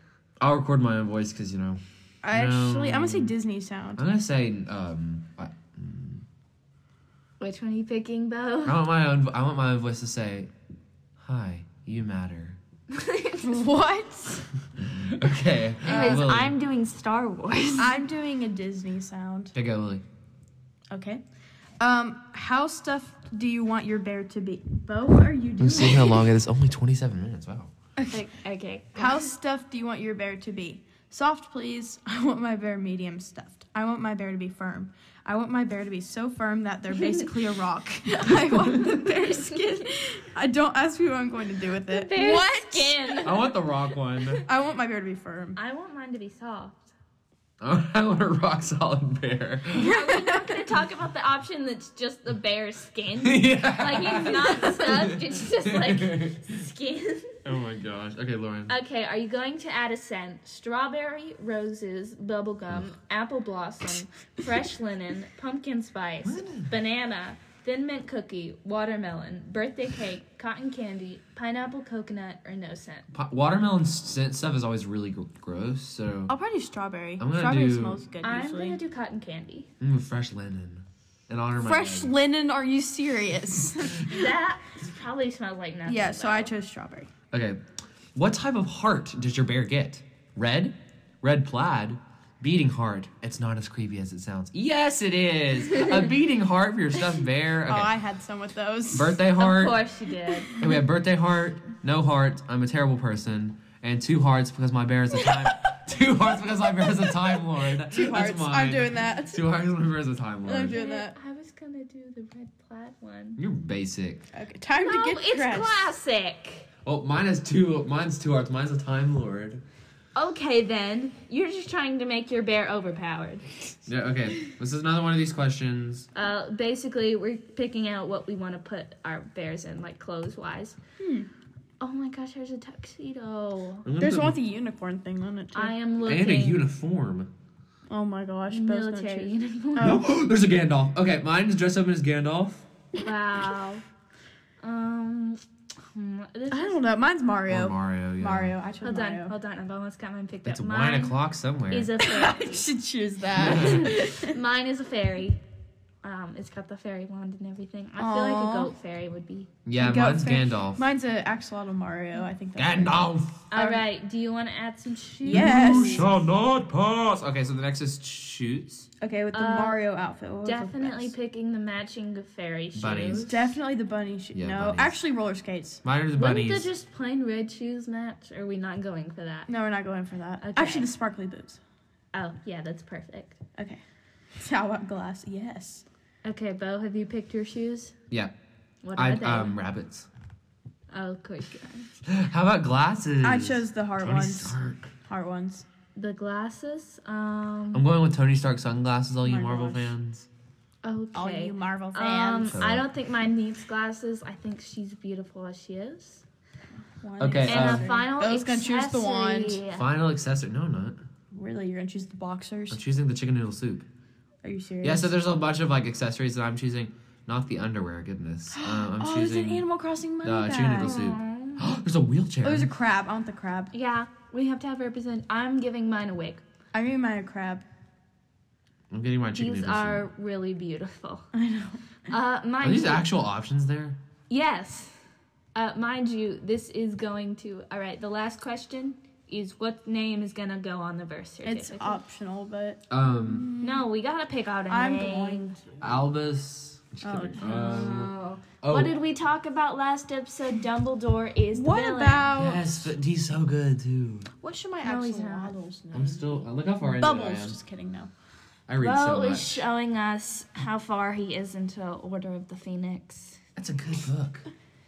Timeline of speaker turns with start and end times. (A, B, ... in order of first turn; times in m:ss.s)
0:00.4-0:01.8 A
0:02.2-0:04.0 B
0:02.3-0:03.3 A
0:04.0-0:06.2 A
0:07.4-0:08.8 C
0:08.6-0:10.5 A
0:11.2-0:12.6 A
0:12.9-0:13.6 C
0:13.4-0:14.5 B
0:14.8-0:16.5 A
0:15.8-0:18.0 C
0:15.8-0:16.2 B
0:17.8-0:19.5 B
0:19.5-0:20.0 A
0:20.9-0:21.2 B
0:21.8-0:26.3 B
0:25.6-0:27.7 A
0:28.1-0:29.3 C
0:28.9-0:43.4 B
0:36.9-0:37.3 C
0:38.8-0:39.8 C
0:41.9-0:43.5 C
0:43.2-0:44.4 A
0:44.4-0:45.6 B
0:45.6-0:46.9 C
0:47.6-0:50.0 A
0:49.8-0:57.4 C
0:49.9-0:50.5 B
0:53.2-0:56.4 A
0:57.4-0:58.7 A
0:58.7-1:13.0 C
1:06.2-1:06.7 A
1:13.1-1:16.3 A
1:16.3-1:18.8 B
1:17.2-1:18.0 A
1:18.2-1:19.7 C
1:19.8-1:22.1 A
1:21.6-1:24.1 B
1:24.0-1:26.5 C
1:25.9-1:27.1 B
1:27.3-1:27.6 A
1:28.1-1:37.9 A
1:37.7-1:39.2 B
1:38.9-1:39.8 A
1:39.3-1:40.6 C
1:40.6-1:50.8 A
1:45.2-1:45.5 B
1:46.7-1:49.5 B
1:50.4-1:51.1 B
1:50.7-1:53.4 C
1:53.4-1:54.2 A
1:54.3-1:55.9 B
1:54.8-1:56.7 C
1:56.8-1:59.6 A
2:00.2-2:03.7 C
2:03.9-2:06.1 A
2:06.1-2:10.8 C
2:11.0-2:11.3 B
2:11.8-2:13.8 C
2:13.8-2:14.4 A
2:14.0-2:15.7 B
2:15.5-2:16.6 C
2:16.0-2:17.3 A
2:17.9-2:20.0 B
2:18.5-2:20.0 C
2:19.8-2:22.6 A
2:22.9-2:23.8 C
2:24.6-2:26.8 C
2:26.5-2:29.3 B
2:27.5-2:28.5 A
2:28.8-2:31.2 C
2:30.4-2:31.9 A
2:31.7-2:32.7 C
2:32.0-2:34.4 B
2:33.4-2:33.9 A
2:33.4-2:35.4 C
2:36.0-2:39.5 C
2:38.0-2:38.7 B
2:39.6-2:40.8 A
2:39.8-2:43.8 B
2:42.6-2:43.5 A
2:43.5-2:46.1 C
2:45.2-2:46.1 B
2:45.2-2:48.9 A
2:49.0-2:51.1 B
2:49.3-2:49.8 C
2:50.4-2:53.4 C
2:52.7-2:53.3 A
2:53.1-2:55.8 B
2:54.3-2:55.0 A
2:55.8-2:56.7 A
2:56.1-2:59.5 C
2:59.5-3:01.6 B
3:00.4-3:00.9 C
3:02.1-3:03.4 C
3:03.6-3:03.8 B
3:04.4-3:05.8 B
3:06.2-3:07.9 C
3:08.8-3:09.6 C
3:09.0-3:10.1 A
3:10.9-3:11.9 C
3:12.0-3:14.9 A
3:13.2-3:14.6 B
3:15.1-3:15.6 B
3:16.0-3:17.8 C
3:17.7-3:20.3 A
3:19.2-3:19.9 B
3:20.8-3:26.2 C
3:21.1-3:22.6 B
3:22.5-3:22.8 A
3:27.0-3:29.6 B
3:27.2-3:27.9 A
3:27.4-3:29.8 C
3:29.7-3:31.0 A
3:31.3-3:32.8 B
3:32.7-3:33.9 A
3:34.4-3:35.1 B
3:34.8-3:39.6 A
3:38.5-3:41.1 B
3:40.2-3:42.7 A
3:40.8-3:41.6 C
3:42.4-3:43.7 B
3:43.7-3:46.4 C
3:46.7-3:47.6 B
3:48.9-3:50.0 A
3:49.4-3:51.2 C
3:51.3-3:51.8 B
3:52.1-3:53.0 C
3:52.6-3:54.0 A
3:54.3-3:55.0 C
3:55.5-4:02.0 C
4:01.4-4:03.8 B
4:02.9-4:03.5 A
4:03.6-4:05.6 C
4:04.7-4:05.4 B
4:05.8-4:08.9 A
4:07.0-4:08.1 B
4:07.4-4:12.3 C
4:11.5-4:12.9 B
4:12.3-4:14.3 A
4:14.4-4:18.1 B
4:14.8-4:15.5 C
4:15.9-4:17.6 A
4:18.7-4:19.6 A
4:18.8-4:23.4 C
4:23.6-4:24.4 A